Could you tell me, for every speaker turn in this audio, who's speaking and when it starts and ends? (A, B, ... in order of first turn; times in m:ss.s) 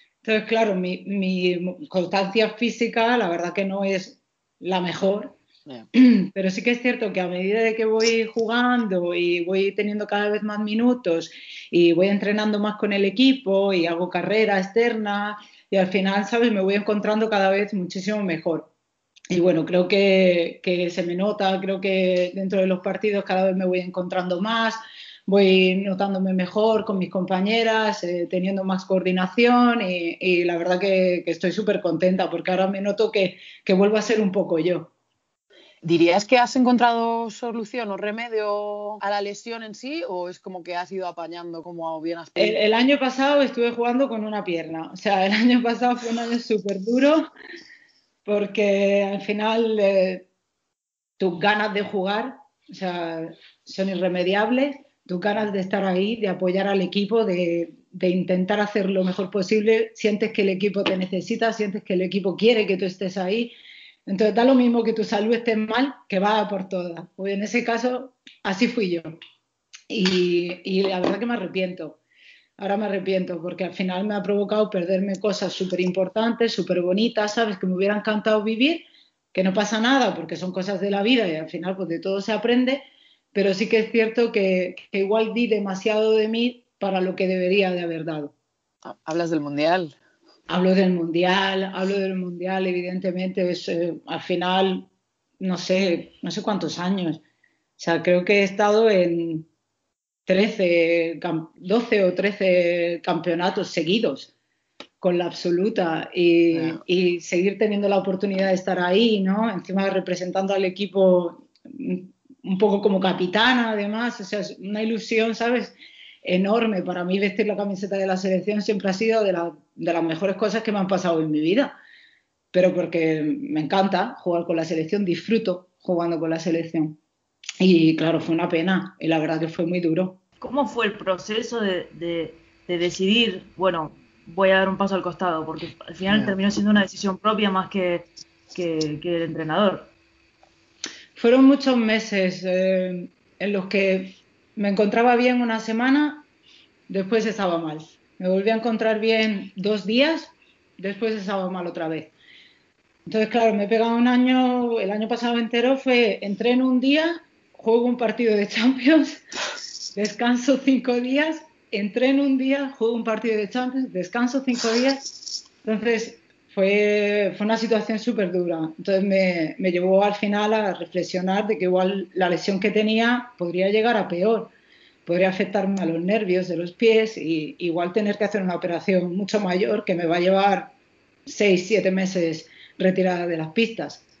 0:00.2-0:05.4 A
0:05.9-0:18.7 A
0:19.3-0:34.9 A
0:35.8-0:42.6 B
0:42.4-0:47.3 A
0:48.2-0:50.3 A
0:51.2-1:03.5 A
1:04.0-1:09.1 A
1:09.9-1:12.0 A
1:12.6-1:28.3 A
1:28.8-1:30.0 B
1:30.5-1:34.9 A
1:35.4-1:37.2 A
1:37.8-1:39.5 A
1:40.3-1:44.3 A
1:45.0-2:01.7 A
1:46.5-1:46.8 B
2:02.5-2:07.0 A
2:07.6-2:10.2 A
2:10.4-2:19.9 C
2:16.1-2:16.3 B
2:21.2-2:26.3 A
2:26.9-2:32.1 A
2:33.0-2:39.2 A
2:39.9-2:45.1 A
2:45.6-2:54.5 A
2:55.0-3:00.7 A
3:01.2-3:04.0 A